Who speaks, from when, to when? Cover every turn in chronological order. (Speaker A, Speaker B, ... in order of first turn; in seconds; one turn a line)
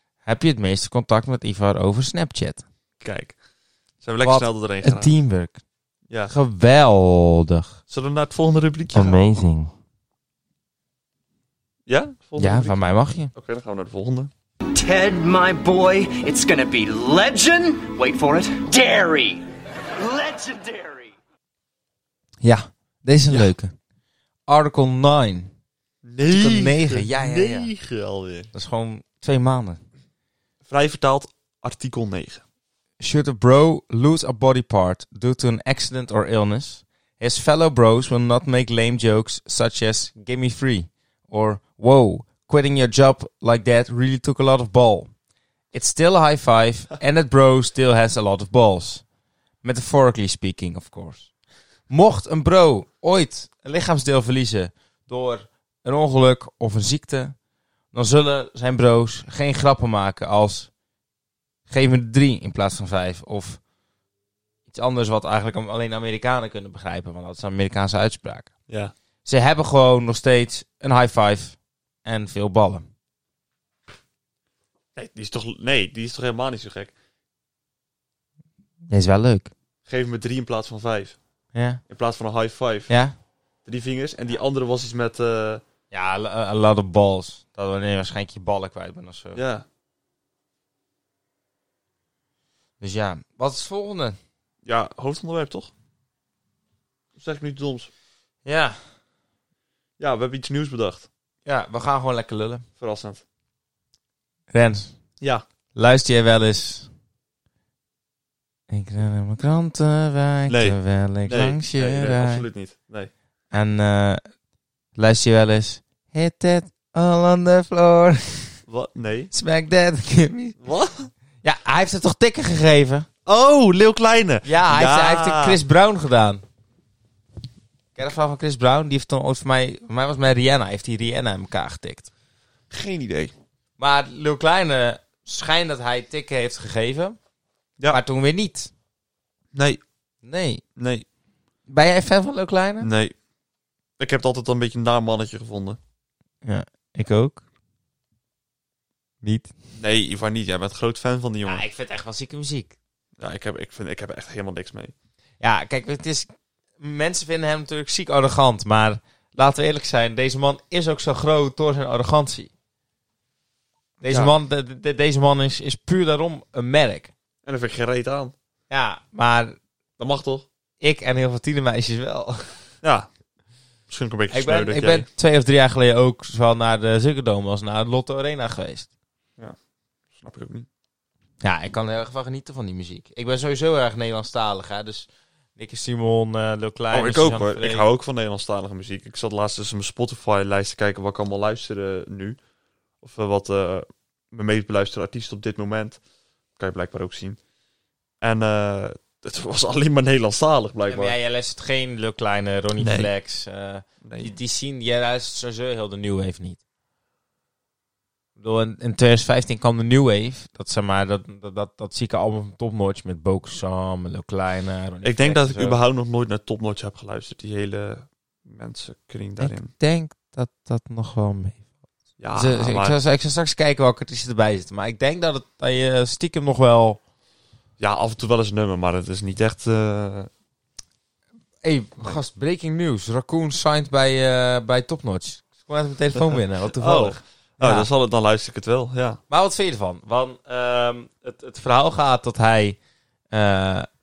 Speaker A: 0.2-2.6
Speaker B: 3.0-3.4
Speaker B: 4.0-5.2
Speaker A: 4.2-5.6
Speaker A: 6.3-7.8
Speaker B: 7.9-9.2
Speaker A: 8.9-9.7
Speaker B: 11.9-12.8
Speaker A: 12.4-13.3
Speaker B: 13.3-14.3
Speaker C: 14.7-21.1
Speaker A: 22.4-23.7
Speaker A: 24.5-25.5
Speaker B: 26.0-28.5
Speaker A: 26.3-27.7
Speaker A: 28.5-29.8
Speaker B: 30.6-32.4
Speaker A: 33.0-45.1
Speaker A: 45.7-49.0
Speaker A: 49.6-51.3
Speaker A: 51.9-57.4
Speaker A: 57.9-60.7
Speaker A: 61.7-63.6
Speaker A: 64.7-68.5
Speaker B: 68.7-68.9
Speaker A: 69.2-72.9
Speaker B: 75.0-76.9
Speaker A: 78.9-79.5
Speaker B: 79.9-81.2
Speaker A: 81.5-81.8
Speaker B: 81.9-82.9
Speaker A: 82.9-83.1
Speaker B: 83.7-85.6
Speaker A: 85.9-89.4
Speaker B: 89.3-89.7
Speaker A: 92.8-94.2
Speaker B: 94.7-95.7
Speaker B: 97.2-97.9
Speaker A: 98.5-98.8
Speaker B: 100.0-101.1
Speaker A: 101.5-102.7
Speaker B: 102.8-103.2
Speaker A: 104.5-105.0
Speaker A: 105.7-106.9
Speaker A: 108.7-112.5
Speaker B: 110.5-113.1
Speaker A: 113.5-114.2
Speaker A: 115.0-118.6
Speaker B: 118.7-119.3
Speaker A: 119.3-120.6
Speaker B: 120.6-121.1
Speaker A: 121.4-123.1
Speaker B: 123.3-125.6
Speaker A: 124.5-126.4
Speaker A: 128.0-132.1
Speaker B: 132.7-133.3
Speaker A: 133.8-137.2
Speaker A: 137.9-138.7
Speaker B: 139.5-139.8
Speaker A: 140.2-140.6
Speaker B: 140.8-141.1
Speaker A: 141.7-142.9
Speaker B: 142.8-143.1
Speaker B: 144.0-145.8
Speaker A: 146.4-147.4
Speaker A: 149.2-149.5
Speaker B: 149.8-151.6
Speaker A: 151.5-152.8
Speaker B: 153.2-154.9
Speaker A: 155.4-162.5
Speaker A: 164.0-167.1
Speaker B: 167.5-168.3
Speaker A: 168.7-169.6
Speaker B: 170.0-170.5
Speaker A: 170.8-172.6
Speaker B: 172.8-173.1
Speaker B: 173.9-175.1
Speaker A: 174.3-178.9
Speaker B: 180.2-180.7
Speaker A: 181.4-187.9
Speaker B: 186.9-192.4
Speaker B: 193.0-196.0
Speaker B: 196.6-197.4
Speaker B: 198.2-201.2
Speaker A: 200.9-206.6
Speaker B: 202.8-203.1
Speaker B: 204.0-204.3
Speaker A: 208.4-215.8
Speaker B: 215.0-219.7
Speaker A: 219.4-221.6
Speaker B: 222.2-223.0
Speaker A: 222.3-227.0
Speaker B: 227.8-230.3
Speaker A: 231.6-237.9
Speaker B: 236.8-239.2
Speaker A: 239.3-242.8
Speaker A: 243.3-243.9